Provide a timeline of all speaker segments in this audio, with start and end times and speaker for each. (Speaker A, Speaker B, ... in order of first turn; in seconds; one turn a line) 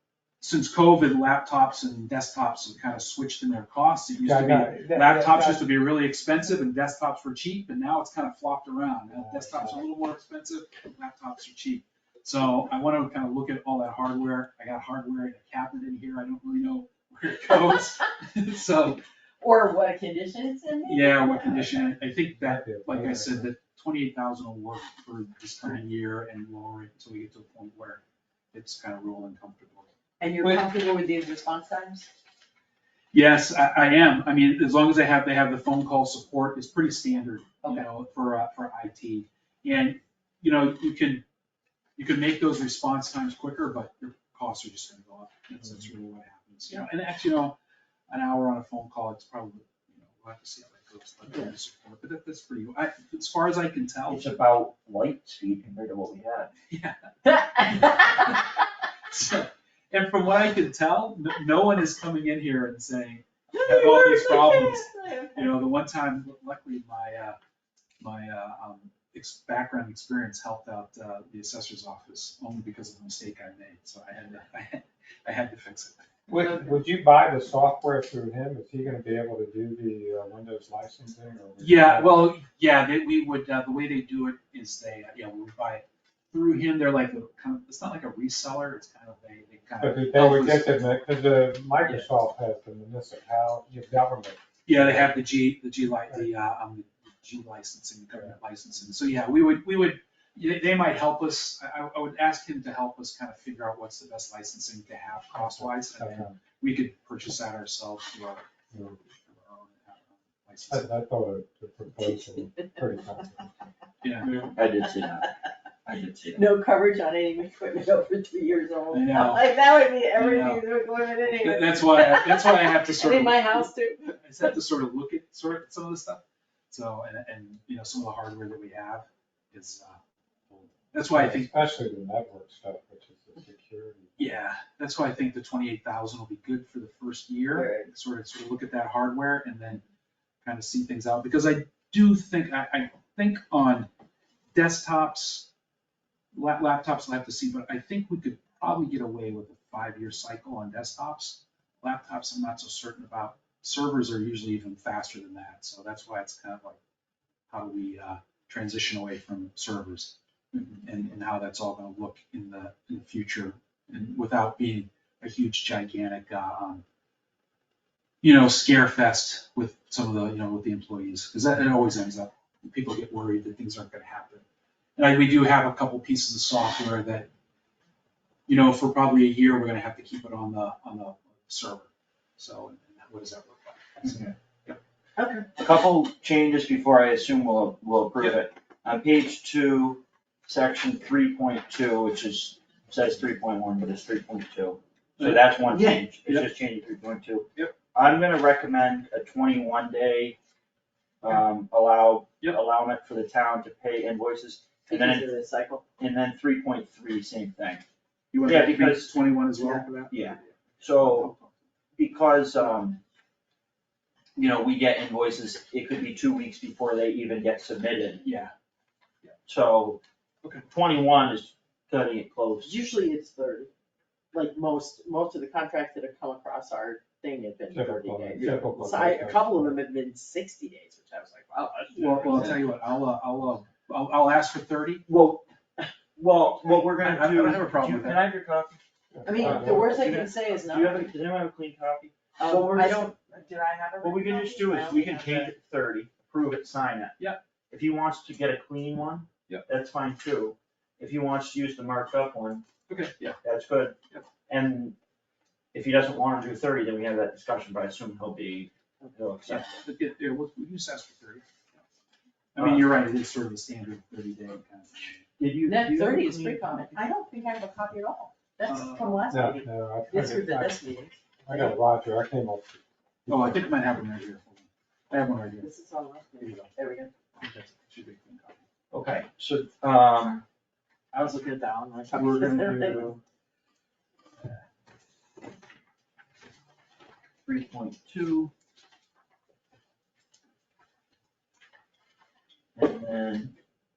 Speaker A: 0.4-19.0
Speaker B: 4.2-5.7
Speaker B: 9.1-9.8
Speaker C: 19.4-21.8
Speaker A: 20.9-28.0
Speaker B: 22.3-23.5
Speaker A: 28.5-29.9
Speaker C: 30.2-32.1
Speaker A: 33.1-41.2
Speaker A: 42.0-47.6
Speaker A: 48.1-54.4
Speaker D: 54.1-56.5
Speaker A: 56.7-58.4
Speaker C: 57.6-58.1
Speaker A: 59.1-67.4
Speaker C: 63.5-65.6
Speaker A: 68.0-76.1
Speaker B: 76.3-82.3
Speaker A: 81.6-90.8
Speaker B: 89.8-95.2
Speaker A: 94.7-108.5
Speaker B: 105.3-106.4
Speaker B: 108.7-109.0
Speaker A: 109.1-110.9
Speaker B: 110.7-113.5
Speaker A: 114.0-114.5
Speaker D: 114.5-116.5
Speaker C: 116.3-124.5
Speaker A: 118.9-119.5
Speaker A: 120.1-120.7
Speaker A: 121.4-131.5
Speaker B: 131.1-134.4
Speaker A: 134.2-139.8
Speaker C: 137.5-137.9
Speaker A: 140.4-143.9
Speaker A: 144.5-145.5
Speaker A: 146.3-156.8
Speaker A: 157.5-166.8
Speaker A: 168.2-174.4
Speaker A: 175.0-177.3
Speaker A: 178.5-184.8
Speaker D: 184.0-184.3
Speaker C: 185.2-185.5
Speaker D: 185.6-200.4
Speaker A: 195.2-196.5
Speaker D: 201.2-205.3
Speaker C: 204.9-205.8
Speaker D: 206.0-207.8
Speaker A: 208.3-211.5
Speaker D: 208.4-209.1
Speaker D: 210.1-211.3
Speaker D: 212.0-213.0
Speaker D: 214.4-218.2
Speaker A: 218.2-218.5
Speaker D: 219.5-220.0
Speaker D: 220.7-222.8
Speaker C: 222.6-223.7
Speaker C: 224.3-232.6
Speaker B: 227.7-229.8
Speaker D: 228.3-228.7
Speaker A: 231.9-235.1
Speaker D: 232.1-232.6
Speaker D: 235.1-243.1
Speaker A: 237.0-238.3
Speaker B: 239.1-239.9
Speaker C: 239.2-241.1
Speaker C: 242.4-245.5
Speaker D: 244.0-247.2
Speaker D: 247.7-252.7
Speaker A: 252.9-253.4
Speaker D: 253.4-254.0
Speaker D: 254.5-255.0
Speaker D: 255.7-259.7
Speaker A: 259.5-261.4
Speaker A: 262.6-265.2
Speaker D: 262.6-262.8
Speaker D: 265.4-267.0
Speaker C: 265.7-271.2
Speaker A: 268.7-269.2
Speaker B: 269.3-270.8
Speaker B: 271.4-273.6
Speaker A: 273.3-275.7
Speaker C: 275.6-277.1
Speaker A: 276.4-276.7
Speaker A: 277.4-278.6
Speaker D: 278.9-280.4
Speaker C: 281.2-283.2
Speaker A: 282.1-283.2
Speaker D: 287.4-288.5
Speaker D: 292.8-293.5